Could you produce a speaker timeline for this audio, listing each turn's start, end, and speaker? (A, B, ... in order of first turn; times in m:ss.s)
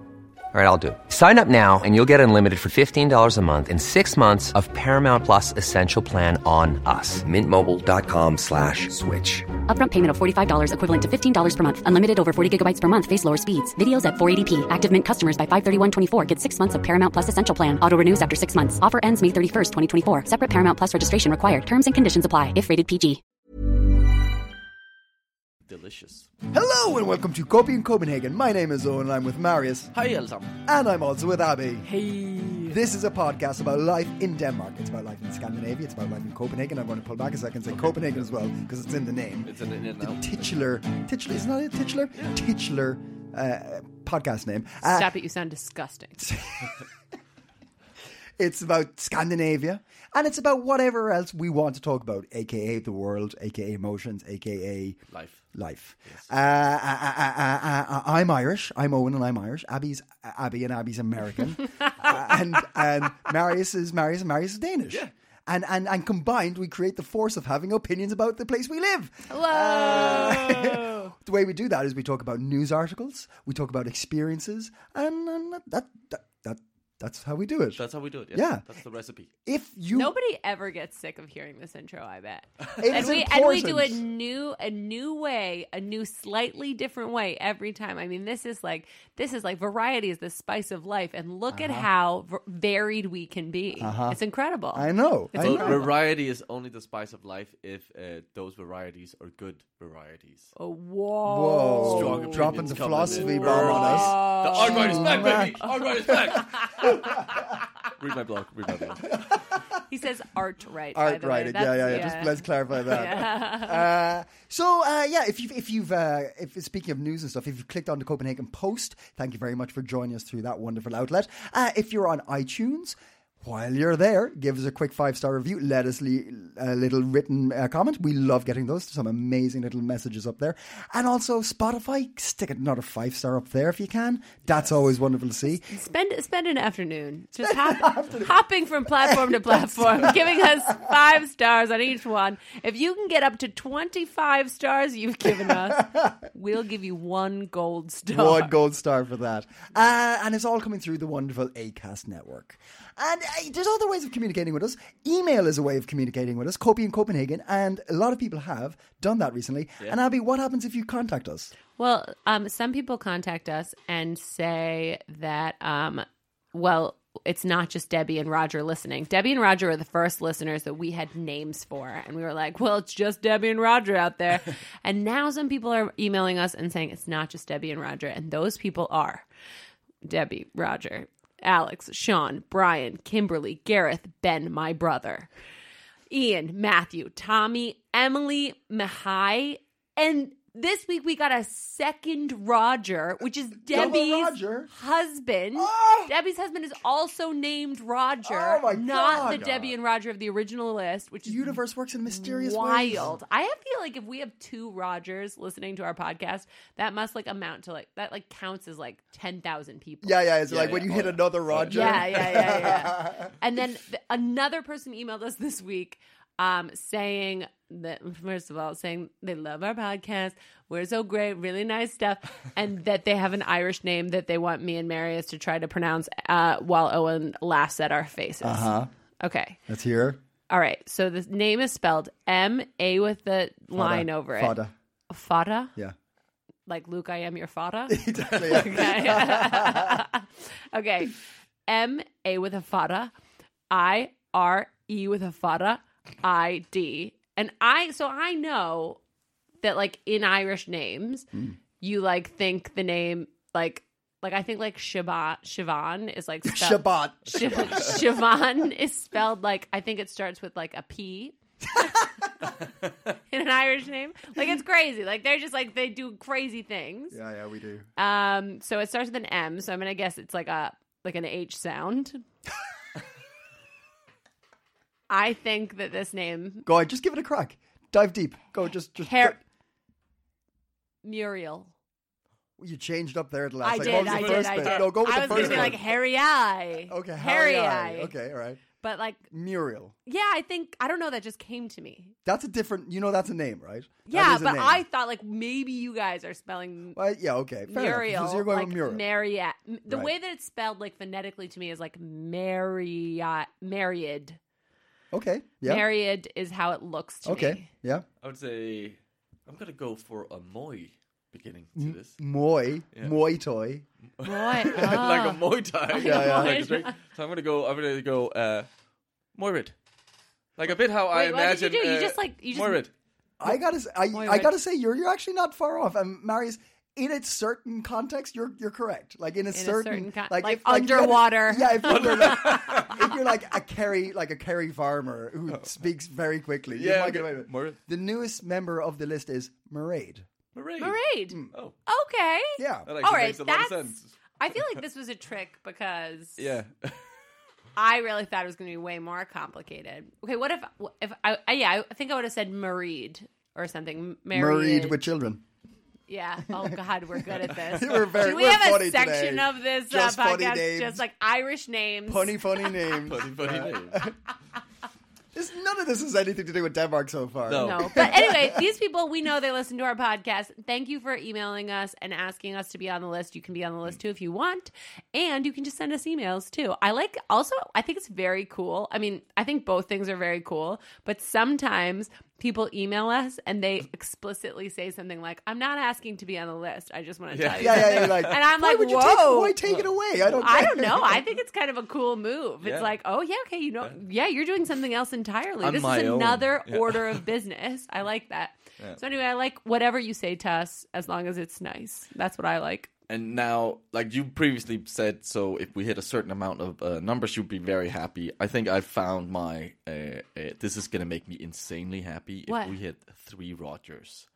0:00.5-0:09.5 A
0:09.7-0:23.2 B
0:25.7-0:26.3 C
0:26.5-0:29.9 D
0:29.9-0:30.6 C
0:30.6-0:31.9 D
0:31.8-0:32.8 E
0:32.7-0:45.1 D
0:37.8-0:38.1 C
0:39.4-0:40.3 C
0:44.8-0:46.4 E
0:46.2-0:46.8 D
0:48.4-0:55.0 D
0:55.1-0:55.4 C
0:55.5-1:18.6 D
1:09.3-1:11.1 E
1:09.8-1:10.6 C
1:17.8-1:19.3 C
1:19.4-1:20.1 D
1:19.9-1:35.9 E
1:22.8-1:24.0 D
1:31.5-1:31.9 D
1:33.8-1:34.2 D
1:34.7-1:35.9 D
1:35.4-1:40.5 C
1:40.6-1:45.7 E
1:41.3-1:47.2 D
1:41.8-1:47.3 C
1:47.9-1:49.2 C
1:49.0-1:49.6 D
1:49.9-1:53.9 E
1:51.0-2:15.7 D
2:15.7-2:28.5 E
2:17.4-2:18.3 D
2:18.9-2:20.9 D
2:25.5-2:26.1 D
2:28.1-2:41.5 D
2:41.8-2:59.3 E
3:00.0-3:05.3 E
3:06.1-3:30.2 E
3:13.7-3:14.7 D
3:15.6-3:16.1 D
3:18.2-3:19.6 D
3:19.2-3:19.7 C
3:21.3-3:23.1 D
3:30.0-3:33.3 D
3:30.5-3:32.4 C
3:31.7-3:49.6 E
3:48.4-3:48.9 D
3:49.7-3:50.2 D
3:50.5-3:54.6 E
3:53.7-3:54.7 D
3:55.1-3:55.7 E
3:56.7-4:03.1 E
3:57.9-4:00.0 D
4:03.7-4:09.0 E
4:09.6-4:11.3 E
4:11.8-4:22.0 E
4:16.4-4:18.1 D
4:23.3-4:27.2 E
4:27.1-4:27.9 D
4:28.0-4:32.2 E
4:35.1-4:36.7 E
4:36.7-4:39.4 D
4:39.0-4:39.4 E
4:41.0-4:41.7 E
4:42.6-4:45.8 D
4:43.6-4:48.2 E
4:43.8-4:45.8 C
4:46.9-4:48.6 D
4:48.8-4:49.3 E
4:49.3-4:50.0 D
4:50.1-4:52.1 E
4:52.3-4:54.8 D
4:54.1-4:57.0 E
4:57.0-4:59.0 D
4:57.7-5:04.4 E
4:59.9-5:00.1 D
5:05.1-5:05.9 D
5:05.6-5:07.7 E
5:07.2-5:08.0 D
5:08.2-5:12.2 C
5:11.8-5:13.9 D
5:14.2-5:18.7 C
5:14.2-5:17.0 E
5:14.7-5:15.0 D
5:16.0-5:16.7 D
5:19.4-5:19.7 C
5:20.6-5:22.9 C
5:21.1-5:22.8 E
5:23.4-5:40.3 D
5:24.1-5:24.5 E
5:29.5-5:33.0 E
5:31.9-5:33.0 C
5:36.7-5:37.8 C
5:40.6-5:41.0 C
5:40.8-5:46.6 E
5:42.6-5:42.9 D
5:42.9-5:44.1 C
5:46.4-5:47.0 C
5:47.8-5:55.0 E
5:54.3-5:55.4 D
5:56.1-6:02.7 E
5:57.4-6:01.0 D
6:02.1-6:04.1 D
6:03.0-6:04.1 C
6:05.3-6:08.6 D
6:07.5-6:08.2 C
6:07.6-6:29.6 E
6:27.3-6:28.4 C
6:27.6-6:31.2 D
6:30.2-6:42.9 E
6:32.6-6:33.0 C
6:35.6-6:37.2 C
6:43.1-6:54.3 C
6:52.5-6:52.8 E